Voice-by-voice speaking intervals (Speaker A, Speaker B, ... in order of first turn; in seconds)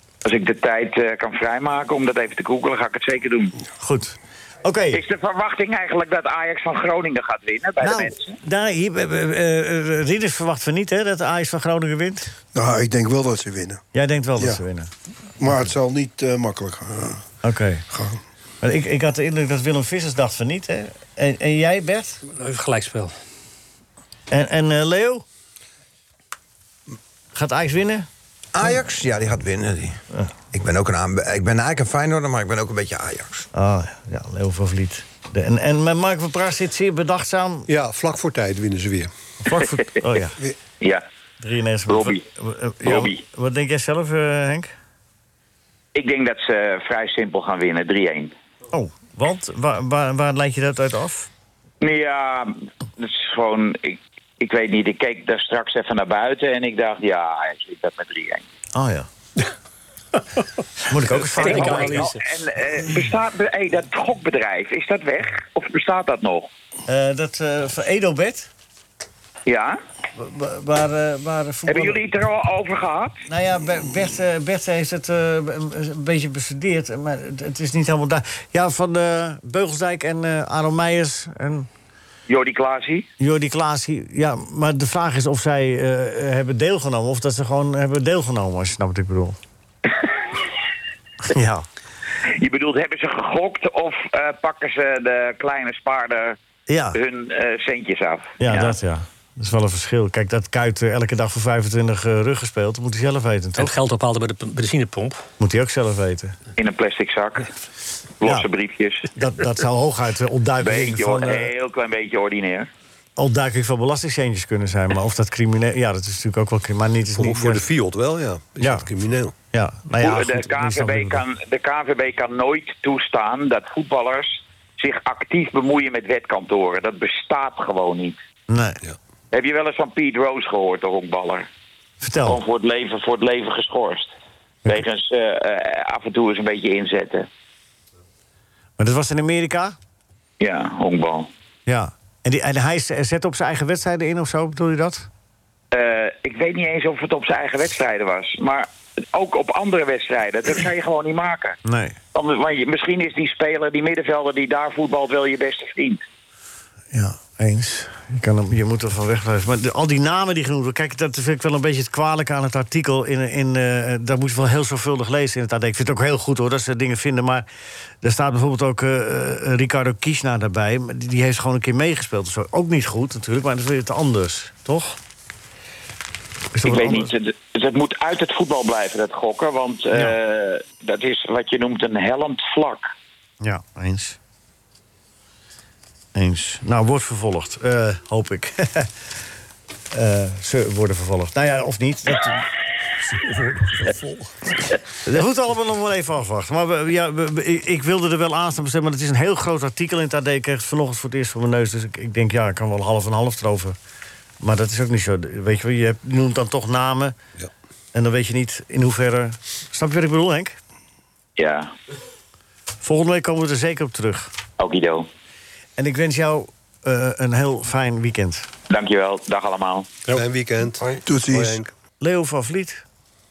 Speaker A: 0.2-3.5, 4.9-8.4, 41.9-42.2, 42.8-43.2, 45.9-48.3, 51.8-58.4, 61.4-66.5, 69.5-69.8, 71.7-73.2, 82.3-83.1, 92.4-96.4, 96.9-98.8, 106.6-107.5, 108.2-109.1, 110.6-112.7, 120.0-128.2, 129.3-131.5, 132.2-134.1, 134.7-137.3, 140.4-141.3, 145.7-151.6, 152.1-156.0, 176.6-182.9, 211.4-211.7, 214.6-215.1, 218.7-219.9
Speaker B: 3.8-5.0, 7.8-12.3, 13.9-14.9, 17.4-17.8, 18.6-22.2, 24.3-25.2, 27.3-28.1, 33.5-37.7, 39.4-40.4, 41.4-44.7, 48.7-51.3, 58.7-59.1, 60.9-62.1, 66.9-68.5, 70.2-72.0, 73.3-81.7, 83.2-89.4, 91.3-91.7, 96.7-97.0, 98.4-103.7, 105.4-106.3, 109.1-111.5, 113.2-117.7, 118.6-118.9, 119.5-121.2, 128.5-128.8, 132.0-132.4, 138.8-139.8, 141.7-145.1, 151.6-151.9, 156.9-167.4, 168.0-175.0, 176.5-177.1, 179.9-180.2, 183.4-184.2, 186.1-188.9, 189.9-192.5, 193.1-194.0, 195.0-203.8, 204.4-207.2, 207.9-210.6, 212.8-214.3, 215.8-218.5, 222.0-222.8
Speaker C: 12.5-13.8, 15.4-17.2, 17.9-18.2, 221.1-221.6
Speaker D: 22.3-23.1, 61.1-62.2, 103.6-105.2
Speaker E: 28.5-30.0, 30.5-33.5
Speaker F: 37.7-39.1, 117.2-119.3, 220.1-221.7